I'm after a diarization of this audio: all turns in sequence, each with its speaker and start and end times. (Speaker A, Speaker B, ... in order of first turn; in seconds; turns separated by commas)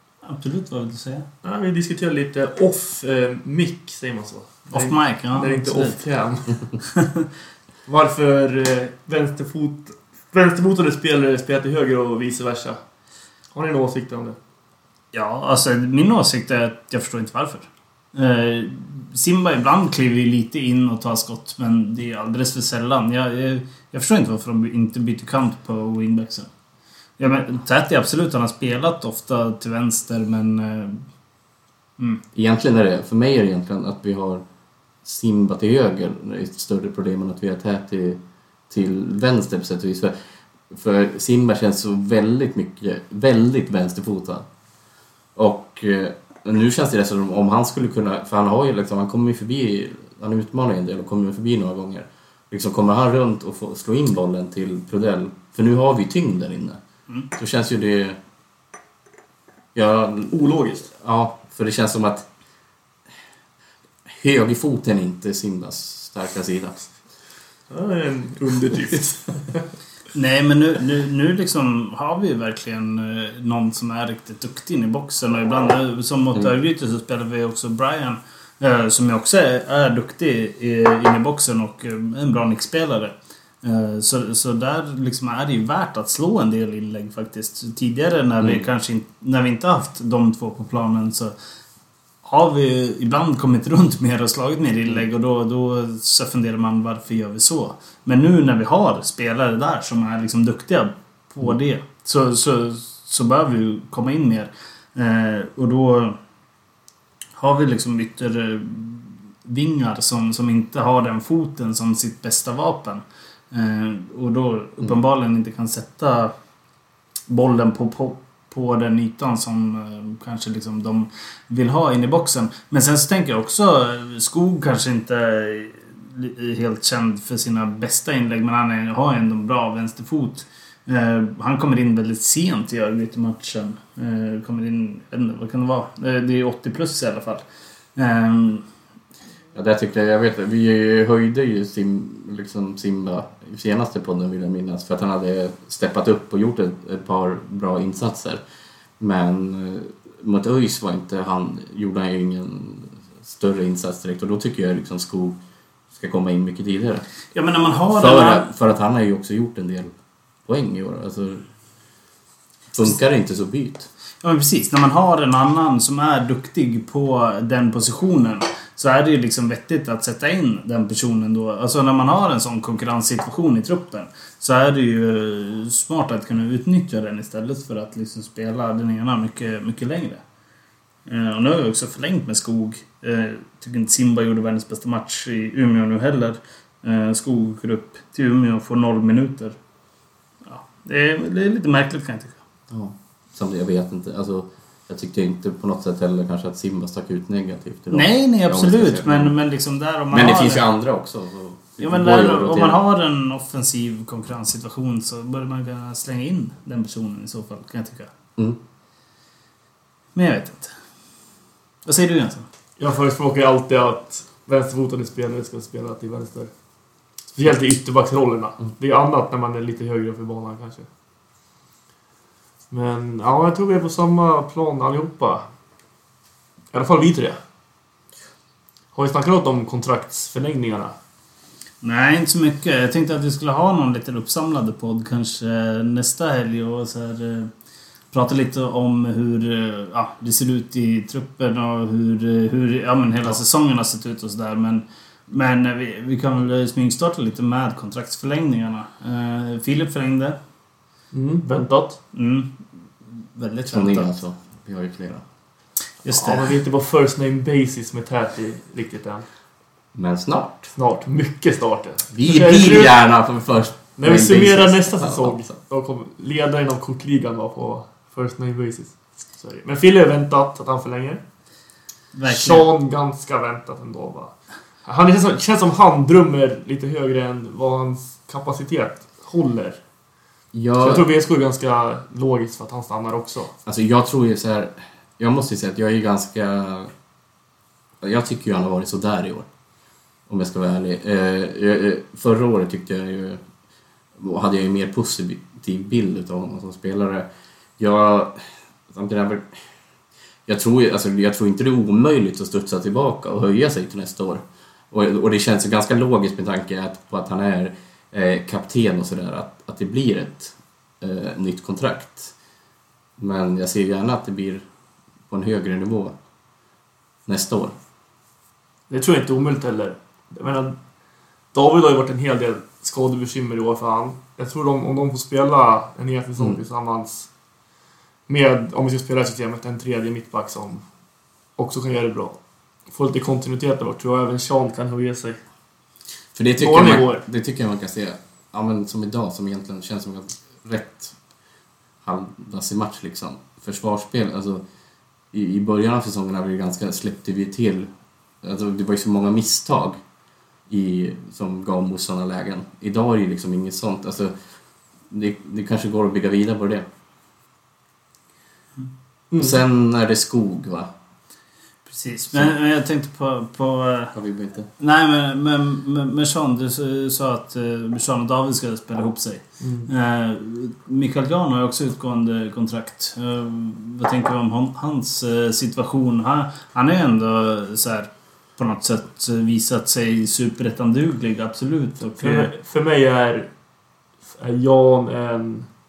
Speaker A: 0.2-1.3, Speaker B: 1.4-6.6, Speaker A: 4.7-6.0, Speaker B: 7.8-12.8, Speaker B: 13.5-14.4, Speaker A: 15.1-26.5, Speaker A: 27.2-31.0, Speaker C: 32.3-34.4, Speaker C: 35.0-44.5, Speaker C: 45.3-56.8, Speaker C: 57.3-58.2, Speaker C: 59.7-62.3, Speaker B: 60.3-60.9, Speaker C: 64.0-66.9, Speaker B: 67.7-69.7, Speaker A: 70.1-91.3, Speaker C: 88.4-88.7, Speaker A: 92.2-106.2, Speaker A: 107.3-116.3, Speaker A: 117.3-137.4, Speaker A: 137.9-138.6, Speaker C: 139.5-148.4, Speaker C: 149.0-155.4, Speaker C: 155.9-157.1, Speaker A: 157.3-158.5, Speaker C: 157.9-159.9, Speaker C: 160.4-161.4, Speaker C: 162.7-163.9, Speaker A: 164.2-180.2, Speaker A: 181.1-189.6, Speaker A: 190.4-192.4, Speaker C: 192.7-199.3, Speaker A: 197.9-200.6, Speaker C: 200.1-202.8, Speaker A: 201.8-208.1, Speaker A: 210.1-210.7, Speaker A: 211.8-212.4, Speaker B: 212.8-216.5, Speaker B: 217.3-220.9, Speaker B: 222.7-225.5, Speaker B: 226.7-227.4, Speaker B: 228.9-230.9, Speaker A: 231.8-237.5, Speaker A: 238.1-250.4, Speaker B: 251.1-252.0, Speaker A: 252.1-254.1, Speaker C: 253.7-255.2, Speaker A: 256.0-256.5, Speaker B: 256.1-259.2, Speaker C: 259.9-260.7, Speaker B: 260.8-262.9, Speaker C: 262.1-265.5, Speaker B: 264.0-271.2, Speaker A: 272.1-272.7, Speaker B: 272.3-279.8, Speaker C: 280.5-281.1, Speaker B: 280.8-283.5, Speaker C: 283.6-286.9, Speaker C: 288.0-289.5, Speaker C: 290.3-293.4, Speaker C: 294.1-299.7, Speaker C: 300.5-312.3, Speaker C: 313.2-314.6, Speaker C: 315.3-316.1, Speaker C: 317.2-317.8, Speaker B: 318.9-320.8, Speaker B: 321.5-327.3, Speaker B: 328.3-330.8, Speaker B: 331.6-335.4, Speaker C: 336.3-341.2, Speaker B: 336.6-337.2, Speaker C: 342.0-344.6, Speaker C: 345.3-347.9, Speaker C: 348.4-350.0, Speaker C: 350.7-354.3, Speaker C: 355.1-356.8, Speaker B: 359.3-359.6, Speaker C: 359.4-360.9, Speaker A: 361.9-364.1, Speaker C: 364.1-364.7, Speaker A: 364.8-382.5, Speaker B: 369.6-369.9, Speaker B: 382.2-383.5, Speaker B: 384.2-385.7